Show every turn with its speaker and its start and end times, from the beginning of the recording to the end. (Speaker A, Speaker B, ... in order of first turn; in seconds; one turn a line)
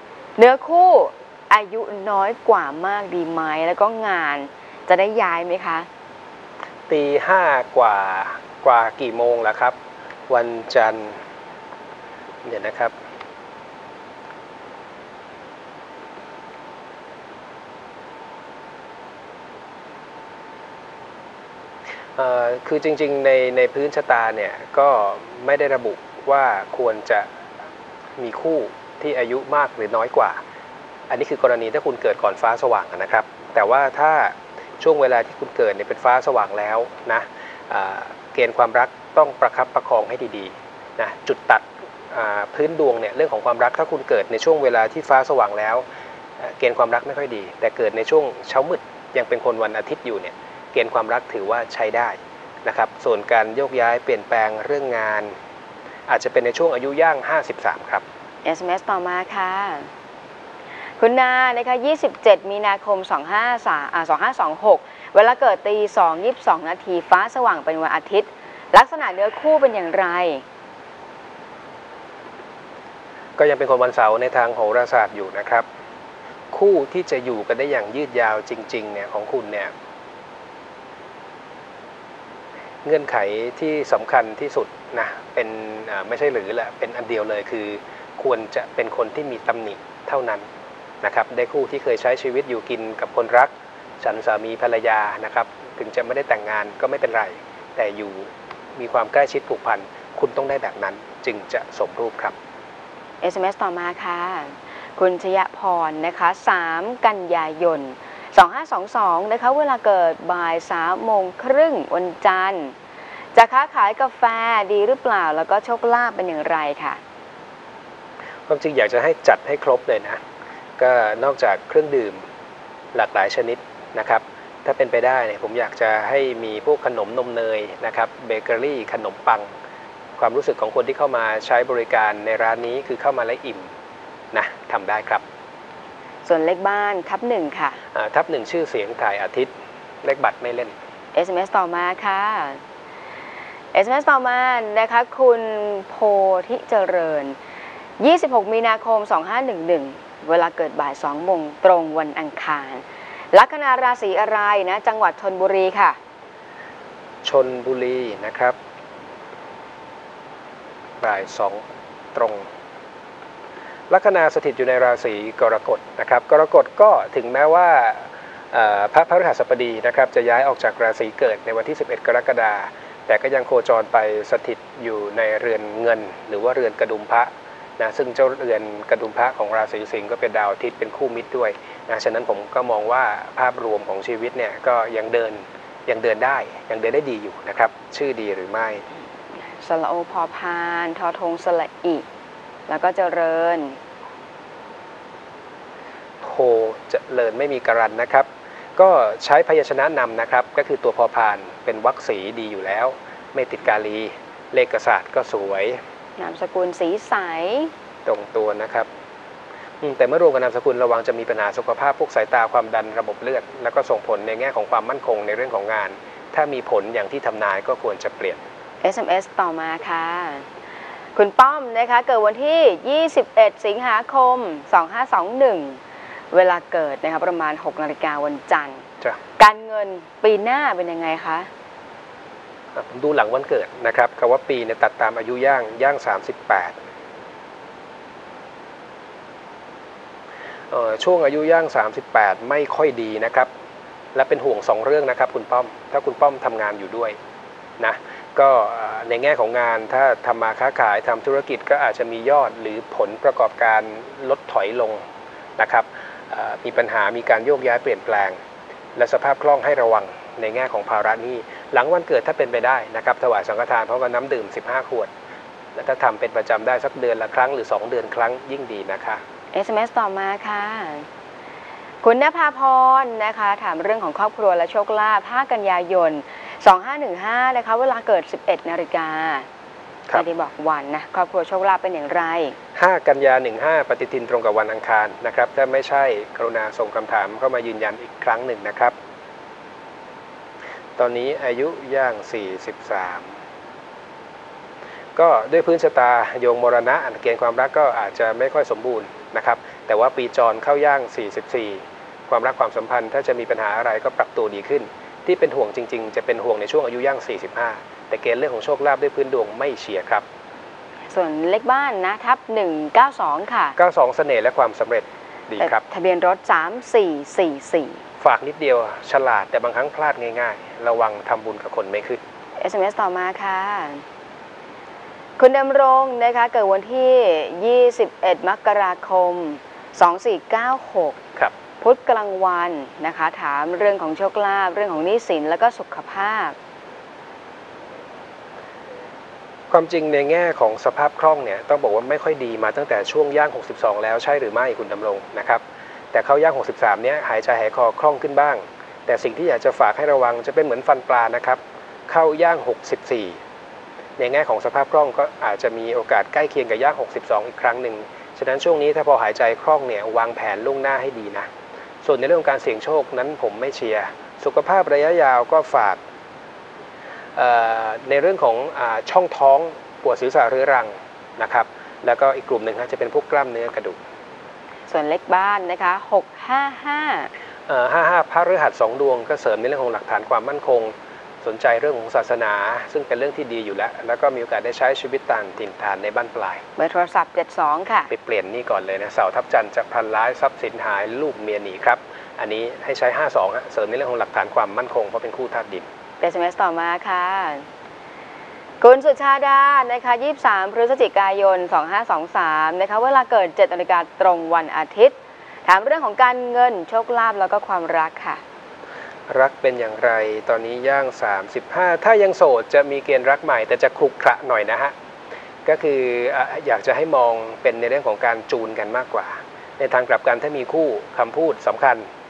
Speaker A: 0.4-5.9
Speaker B: 6.9-9.8
Speaker B: 10.3-11.2
Speaker B: 12.4-12.9
Speaker B: 22.2-27.3
Speaker B: 28.2-30.4
Speaker B: 31.1-45.8
Speaker B: 46.4-55.3
Speaker B: 56.1-58.0
Speaker A: 58.4-59.9
Speaker A: 61.0-70.4
Speaker B: 73.4-75.6
Speaker B: 76.5-79.7
Speaker B: 82.8-90.5
Speaker B: 91.0-102.3
Speaker A: 103.2-112.7
Speaker A: 113.3-117.0
Speaker B: 118.5-120.2
Speaker B: 120.8-122.2
Speaker B: 122.9-129.5
Speaker B: 130.2-133.7
Speaker B: 134.3-135.2
Speaker A: 136.2-137.8
Speaker B: 137.9-139.5
Speaker B: 140.0-140.8
Speaker A: 141.1-142.6
Speaker A: 143.7-147.4
Speaker A: 148.0-156.0
Speaker B: 157.2-158.6
Speaker B: 161.0-162.5
Speaker B: 163.9-188.8
Speaker A: 189.4-192.0
Speaker A: 192.7-193.8
Speaker B: 196.2-205.8
Speaker A: 206.2-207.7
Speaker B: 208.1-208.9
Speaker B: 209.8-218.4
Speaker A: 218.8-220.4
Speaker A: 221.2-225.8
Speaker A: 226.3-228.8
Speaker A: 229.4-231.5
Speaker B: 232.7-236.7
Speaker B: 240.7-243.5
Speaker B: 244.1-247.2
Speaker B: 247.8-255.0
Speaker B: 255.6-258.4
Speaker B: 258.9-265.1
Speaker B: 265.7-269.2
Speaker A: 269.5-271.1
Speaker A: 272.0-279.5
Speaker A: 280.1-282.6
Speaker B: 282.8-288.9
Speaker B: 291.0-293.3
Speaker B: 295.1-310.2
Speaker A: 311.1-313.8
Speaker B: 313.8-315.8
Speaker A: 315.6-318.0
Speaker B: 318.2-322.2
Speaker A: 322.6-324.0
Speaker A: 325.4-331.2
Speaker A: 331.8-336.6
Speaker B: 339.7-353.4
Speaker B: 354.2-361.5
Speaker B: 362.0-366.0
Speaker B: 367.4-374.0
Speaker A: 374.9-377.3
Speaker B: 377.7-386.6
Speaker A: 386.8-388.1
Speaker B: 388.1-395.9
Speaker A: 396.2-397.6
Speaker A: 398.8-408.4
Speaker B: 409.3-414.9
Speaker B: 415.6-422.0